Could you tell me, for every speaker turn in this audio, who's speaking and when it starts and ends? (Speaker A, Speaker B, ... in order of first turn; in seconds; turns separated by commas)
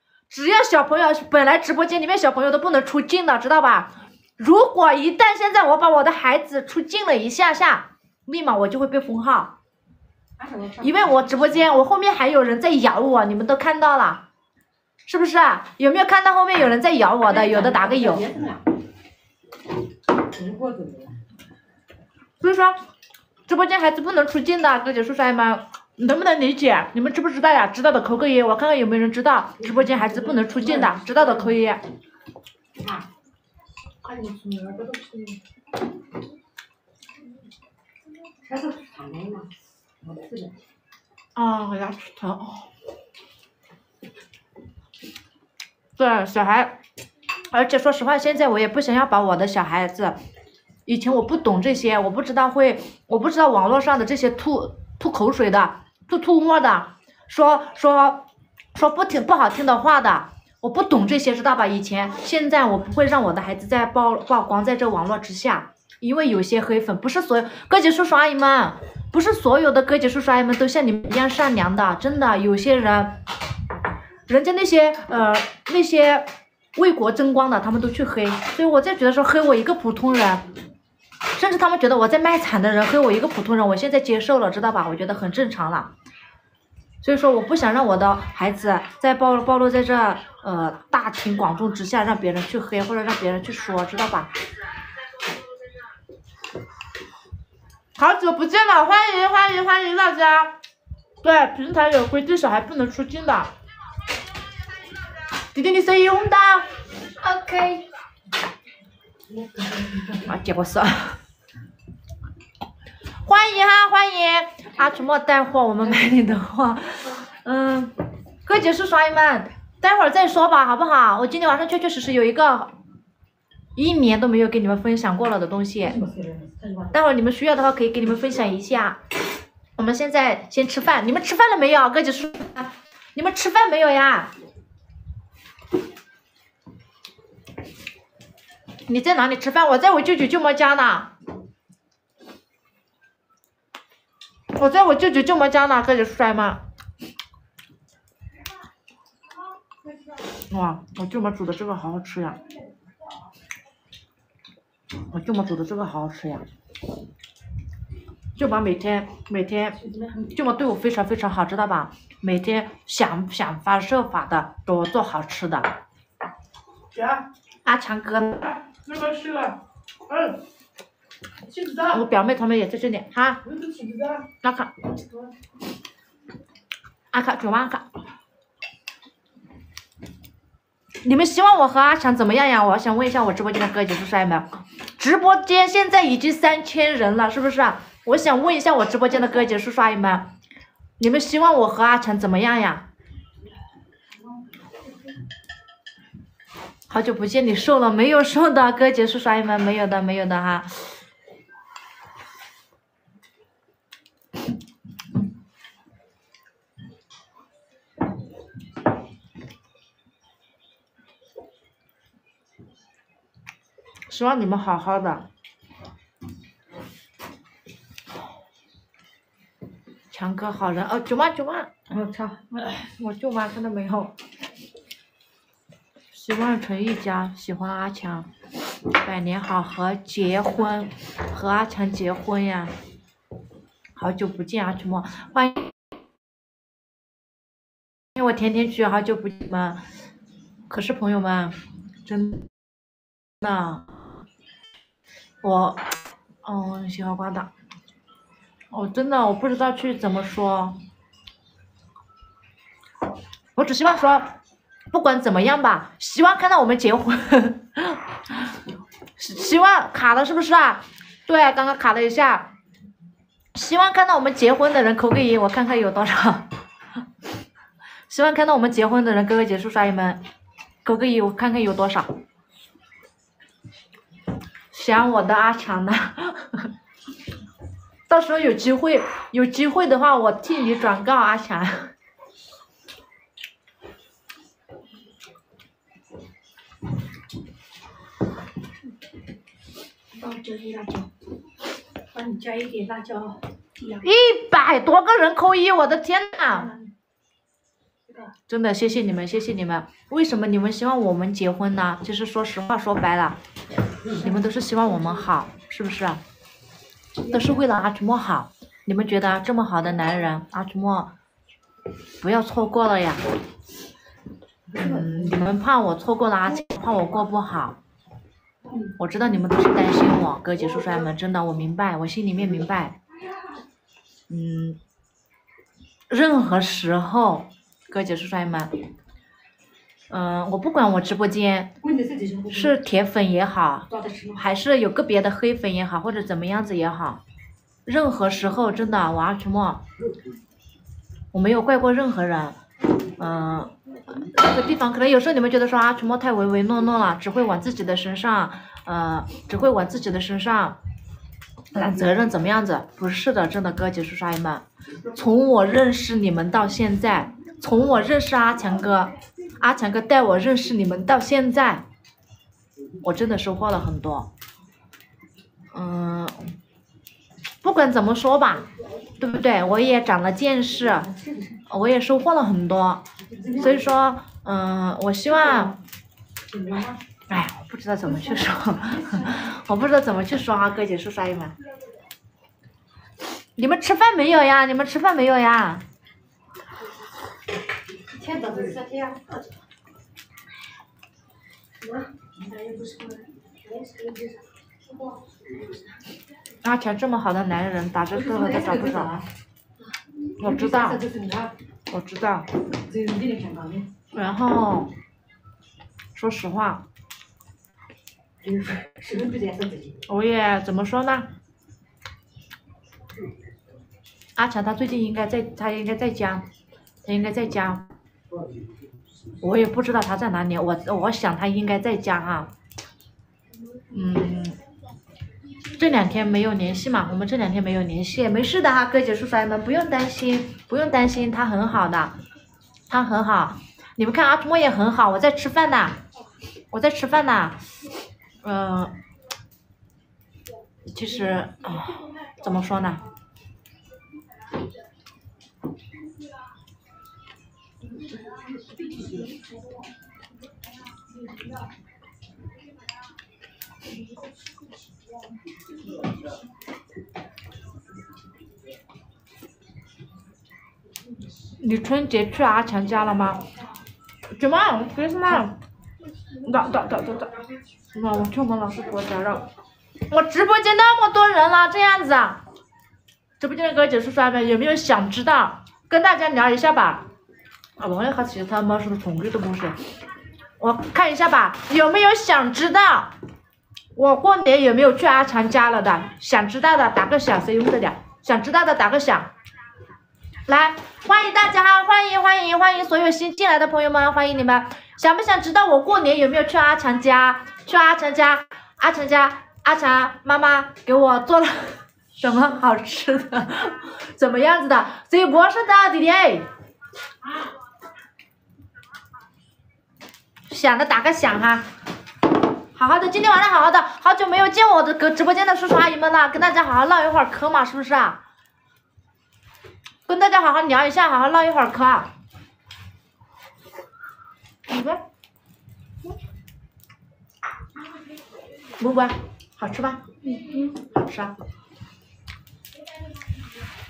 Speaker A: 0.3-9.5, Speaker B: 10.4-11.2, Speaker A: 10.8-14.2, Speaker A: 15.1-18.3, Speaker B: 17.3-18.6, Speaker B: 20.3-21.1, Speaker A: 22.4-22.8, Speaker A: 23.5-31.8, Speaker B: 29.9-31.3, Speaker B: 34.0-35.4, Speaker B: 38.4-39.5, Speaker B: 40.0-40.5, Speaker A: 41.4-42.7, Speaker A: 46.0-46.8, Speaker A: 47.5-50.2, Speaker A: 50.9-73.2, Speaker A: 74.3-80.5, Speaker A: 81.3-85.9, Speaker A: 87.0-94.3, Speaker A: 98.0-100.5, Speaker A: 101.2-103.5, Speaker A: 105.5-106.7, Speaker B: 107.2-107.9, Speaker B: 109.3-110.3, Speaker A: 110.1-111.2, Speaker A: 113.2-122.7, Speaker A: 123.8-126.0, Speaker B: 125.9-126.9, Speaker A: 126.9-129.0, Speaker A: 129.8-134.3, Speaker A: 138.9-141.1, Speaker A: 144.5-146.6, Speaker A: 150.5-152.4, Speaker A: 155.1-156.5, Speaker A: 158.4-165.7, Speaker B: 159.8-160.3, Speaker A: 167.1-169.6, Speaker A: 170.1-170.3, Speaker A: 171.8-173.5, Speaker B: 173.6-174.2, Speaker A: 174.2-174.7, Speaker A: 177.1-177.9, Speaker A: 181.0-190.3, Speaker A: 191.0-192.8, Speaker A: 196.9-200.9, Speaker A: 214.1-215.3, Speaker A: 220.1-221.9, Speaker B: 221.9-222.5, Speaker A: 222.5-224.1, Speaker A: 226.1-228.3, Speaker A: 228.9-232.7, Speaker A: 234.0-235.7, Speaker A: 238.2-239.8, Speaker A: 240.7-242.5, Speaker A: 243.4-243.9, Speaker A: 245.4-245.8, Speaker A: 246.4-247.5, Speaker A: 248.7-250.8, Speaker A: 253.6-254.3, Speaker A: 254.9-258.5, Speaker A: 259.2-262.5, Speaker A: 263.5-266.5, Speaker A: 268.1-270.2, Speaker A: 270.8-272.1, Speaker A: 274.7-276.7, Speaker A: 278.1-281.9, Speaker B: 290.1-291.1, Speaker B: 292.1-294.0, Speaker A: 294.0-296.8, Speaker A: 298.5-303.4, Speaker A: 304.1-306.2, Speaker A: 307.2-311.1, Speaker A: 312.2-313.2, Speaker B: 314.7-315.1, Speaker A: 314.8-317.8, Speaker A: 319.0-323.0, Speaker A: 324.3-324.8, Speaker A: 326.1-328.7, Speaker A: 330.1-331.7, Speaker B: 331.8-332.7, Speaker A: 332.5-337.2, Speaker B: 333.9-334.4, Speaker A: 337.9-339.8, Speaker A: 341.3-342.6, Speaker A: 343.2-350.8, Speaker A: 351.7-361.8, Speaker A: 363.0-364.3, Speaker A: 365.7-366.4, Speaker A: 367.6-371.1, Speaker B: 371.1-371.6, Speaker A: 371.7-375.8, Speaker B: 373.3-373.8, Speaker B: 376.5-377.0, Speaker A: 377.3-381.6, Speaker B: 379.0-379.3, Speaker A: 383.6-385.8, Speaker B: 388.1-389.3, Speaker B: 391.8-395.1, Speaker A: 396.6-399.2, Speaker B: 398.1-399.2, Speaker A: 400.4-401.0, Speaker B: 400.4-401.5, Speaker A: 401.9-402.5, Speaker B: 402.8-403.9, Speaker A: 404.1-404.9, Speaker A: 406.1-406.8, Speaker B: 408.4-410.0, Speaker A: 410.1-411.3, Speaker A: 414.4-416.4, Speaker A: 417.0-417.8, Speaker A: 419.4-422.5, Speaker A: 423.9-424.6, Speaker A: 425.7-432.1, Speaker A: 432.9-436.0, Speaker A: 436.7-437.6, Speaker A: 438.4-438.9, Speaker A: 440.9-443.0, Speaker B: 448.9-449.3, Speaker A: 461.6-463.4, Speaker A: 464.3-465.6, Speaker A: 466.4-469.5, Speaker A: 470.1-472.4, Speaker A: 473.4-477.1, Speaker A: 477.8-479.8, Speaker A: 480.6-483.1, Speaker A: 483.9-489.3, Speaker A: 490.5-506.5, Speaker A: 510.5-511.7, Speaker A: 512.8-518.2, Speaker A: 520.1-522.1, Speaker A: 524.7-525.0, Speaker A: 528.8-530.0, Speaker B: 530.4-530.6, Speaker A: 530.6-531.4